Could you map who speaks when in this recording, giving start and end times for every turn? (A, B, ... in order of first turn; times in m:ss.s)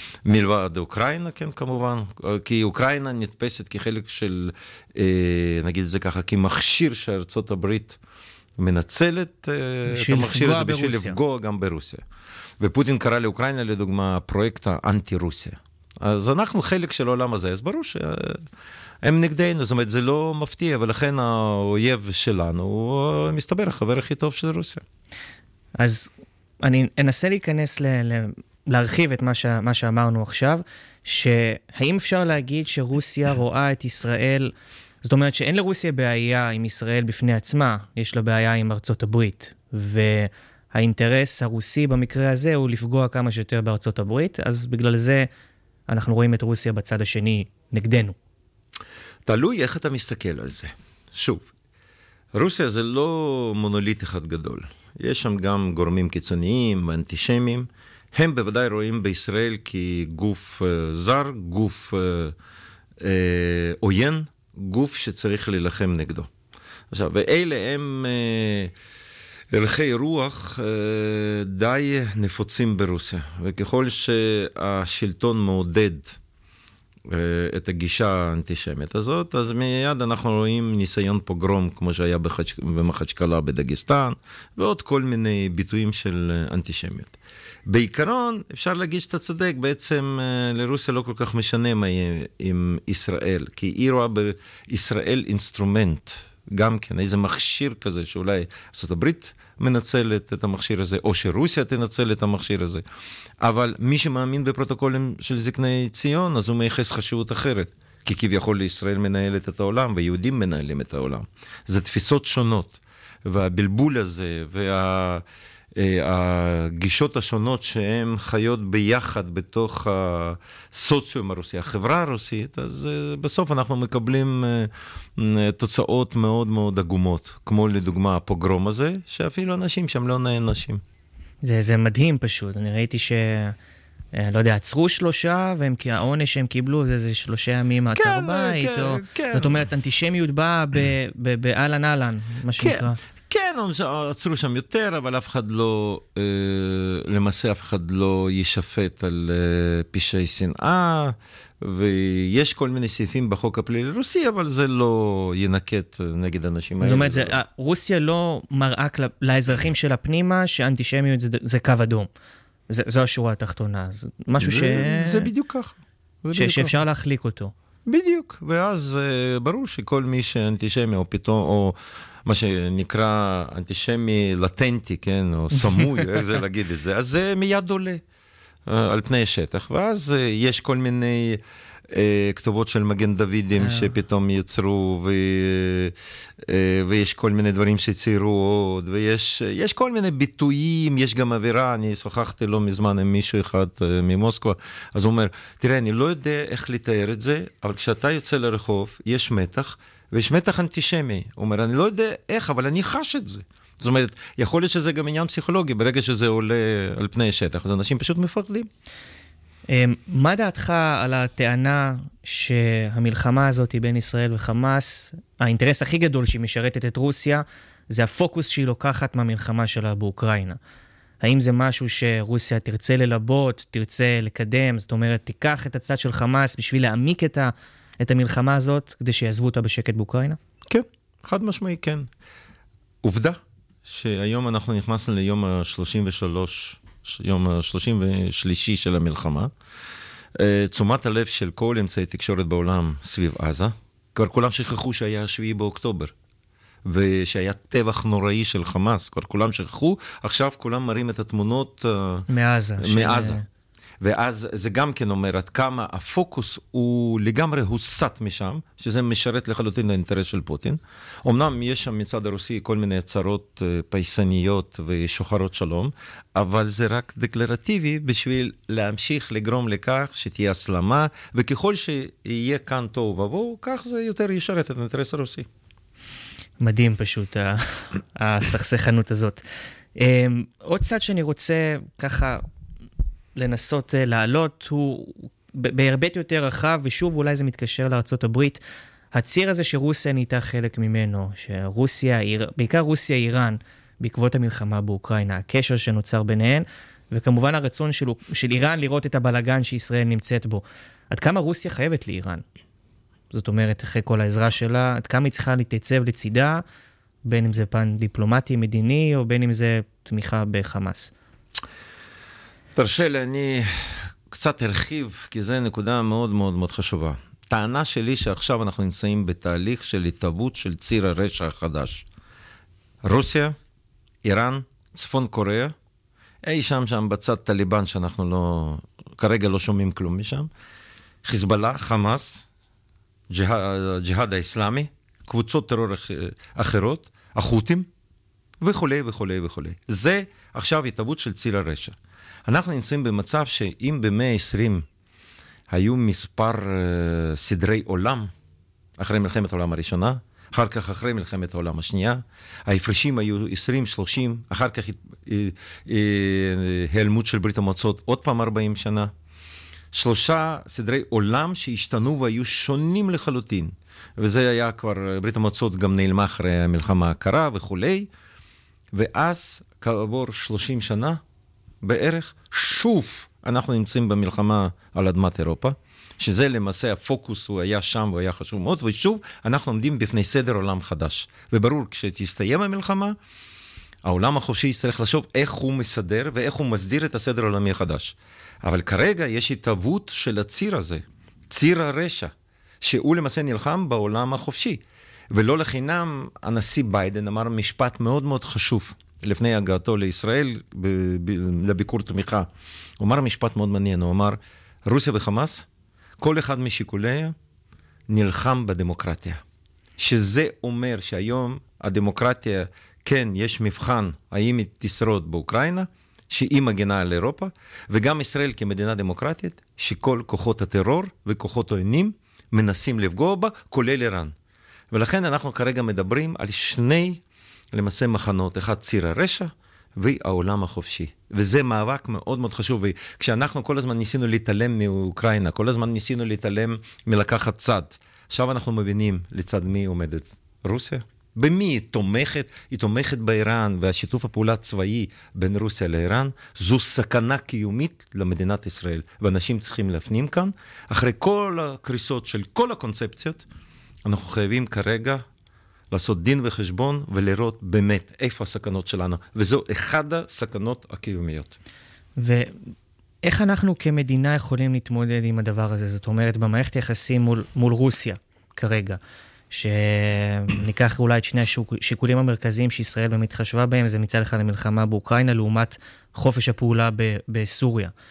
0:00.2-0:08.0 A
0:08.6-0:12.0 A
0:09.9-0:11.2 B
0:12.6-0:18.4 A
0:19.0-0:24.8 A
0:25.8-0:26.1 B
0:26.6-0:34.5 B
0:35.0-0:45.3 B
0:45.9-0:48.2 B
0:49.2-0:51.5 A
0:52.3-1:02.3 A
1:03.0-1:06.3 A
1:06.9-1:08.7 A
1:09.5-1:16.2 A
1:17.1-1:42.8 A
1:43.4-1:55.2 A
1:55.7-2:10.8 A
2:11.4-2:13.6 B
2:14.1-2:23.0 B
2:17.9-2:19.6 A
2:22.6-2:37.4 A
2:36.8-2:42.1 B
2:42.7-2:45.3 B
2:44.4-2:46.8 A
2:46.3-2:47.5 B
2:47.8-2:58.0 A
2:58.7-3:28.7 A
3:03.6-3:03.9 B
3:29.7-3:40.6 B
3:41.2-3:50.4 B
3:50.7-3:52.1 A
3:53.0-3:59.5 A
4:00.3-4:06.1 A
4:06.8-4:12.3 A
4:12.3-4:13.4 B
4:12.8-4:13.4 A
4:14.0-4:35.5 A
4:36.6-4:39.4 B
4:39.9-4:42.4 B
4:43.3-4:48.6 B
4:49.1-5:02.4 B
5:03.3-5:06.6 B
5:07.2-5:11.1 B
5:12.7-5:22.0 A
5:23.0-5:23.5 A
5:24.2-5:25.7 A
5:26.4-5:30.5 A
5:31.2-5:32.5 A
5:33.3-5:37.9 A
5:38.6-5:42.0 A
5:42.5-5:44.8 A
5:45.7-5:48.3 A
5:49.0-5:59.1 A
5:59.9-6:08.1 A
6:08.9-6:11.2 A
6:11.8-6:23.2 A
6:24.0-6:42.5 A
6:43.0-6:45.7 A
6:46.2-6:47.4 A
6:48.1-6:49.4 A
6:50.0-7:04.3 A
7:04.9-7:07.2 A
7:07.7-7:33.4 A
7:34.0-7:35.2 A
7:35.9-7:41.6 A
7:42.2-7:42.6 B
7:43.2-7:49.0 B
7:49.5-7:57.9 B